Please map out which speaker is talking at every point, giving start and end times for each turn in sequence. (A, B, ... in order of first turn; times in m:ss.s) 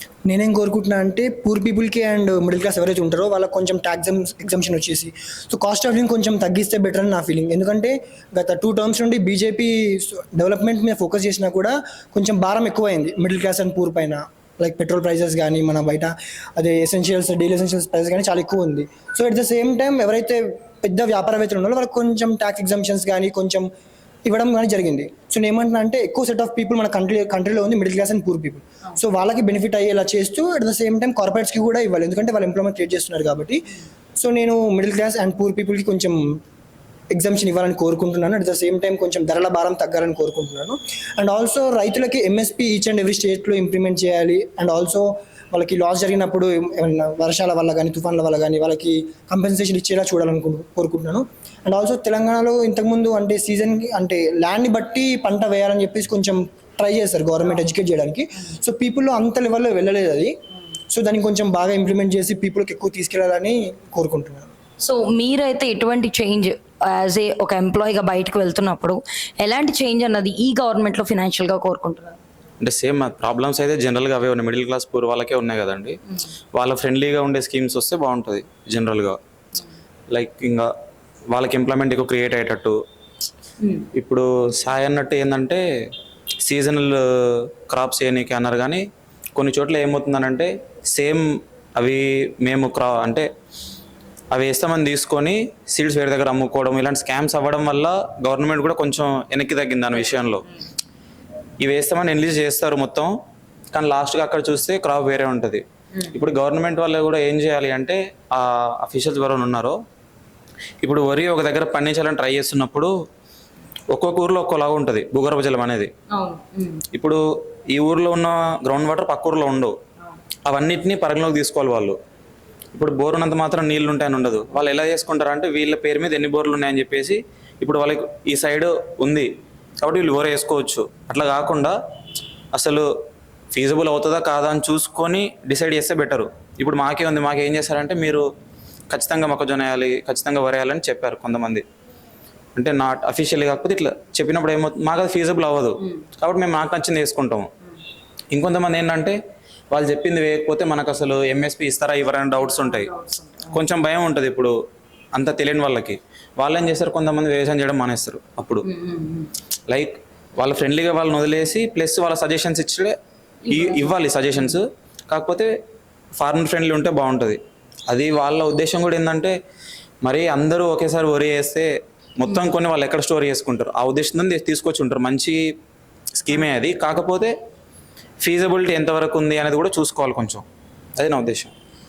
0:00.3-0:23.7 A
0:24.2-0:33.6 A
0:34.2-0:36.2 A
0:37.1-1:00.3 A
1:00.9-1:04.5 A
1:04.8-1:12.2 B
1:12.6-1:16.0 C
1:16.6-1:19.2 C
1:20.1-1:20.7 C
1:21.3-1:22.8 C
1:23.6-1:23.9 B
1:23.9-1:25.6 C
1:26.4-1:28.8 C
1:29.4-1:31.2 C
1:31.8-1:33.3 C
1:34.3-1:40.4 C
1:41.6-1:43.1 C
1:43.7-1:49.8 C
1:50.8-1:52.9 C
1:53.9-1:55.9 C
1:56.1-1:56.8 B
1:56.9-1:57.2 C
1:57.7-1:59.7 C
2:00.5-2:02.0 C
2:02.7-2:09.3 C
2:09.8-2:11.7 C
2:12.5-2:12.9 C
2:13.5-2:18.2 C
2:18.9-2:21.6 C
2:22.6-2:27.5 C
2:28.3-2:29.2 C
2:29.7-2:32.9 C
2:32.4-2:33.6 B
2:33.5-2:34.5 C
2:35.1-2:38.6 C
2:38.6-2:39.3 B
2:39.7-2:42.9 C
2:43.4-2:44.6 B
2:43.5-2:45.5 C
2:46.2-2:49.3 C
2:50.0-2:55.4 C
2:56.2-2:57.3 C
2:58.2-3:00.4 C
3:01.0-3:01.5 C